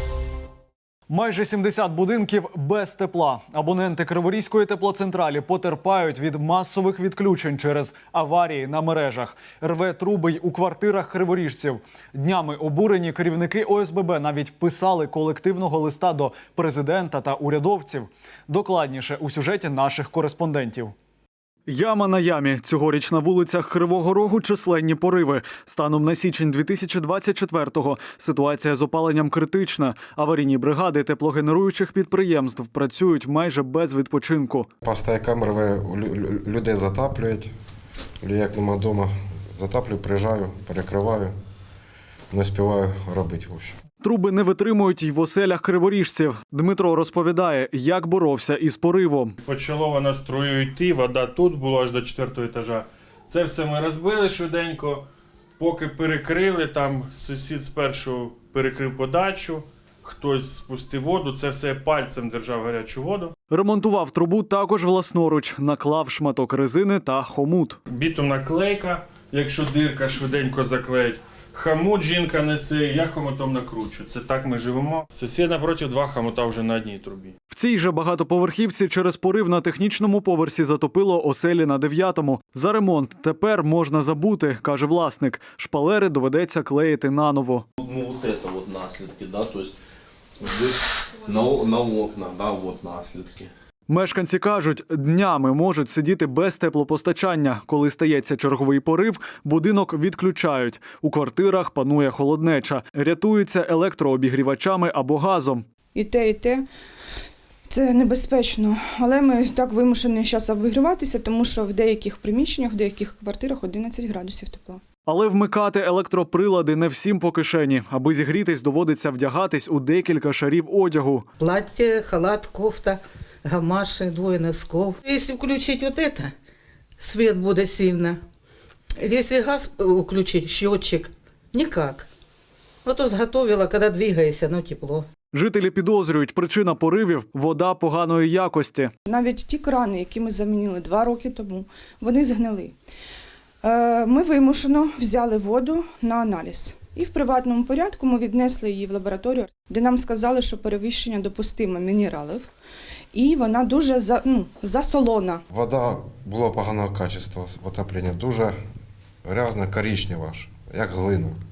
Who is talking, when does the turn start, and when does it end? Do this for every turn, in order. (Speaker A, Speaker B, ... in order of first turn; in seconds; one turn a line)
Speaker A: 1.1-20.9
Speaker A: 21.7-34.7
Speaker B: 34.8-37.5
Speaker B: 38.2-41.3
Speaker B: 42.3-43.7
Speaker A: 44.0-49.4
Speaker C: 49.4-55.0
Speaker C: 55.6-63.3
Speaker A: 63.5-67.8
Speaker C: 67.9-77.3
Speaker A: 77.5-87.6
Speaker D: 87.8-89.7
Speaker D: 90.4-93.5
Speaker A: 93.9-105.6
Speaker E: 105.9-106.7
Speaker E: 107.7-114.8
Speaker A: 115.0-121.2
Speaker F: 123.6-124.2
Speaker F: 125.2-126.3
Speaker F: 127.0-128.2
Speaker F: 129.1-129.5
Speaker F: 130.2-131.1
Speaker F: 131.6-132.0
Speaker A: 135.3-138.9
Speaker E: 139.1-142.8
Speaker E: 143.6-152.5
Speaker E: 153.1-155.4
Speaker B: 155.5-158.5
Speaker B: 159.2-161.4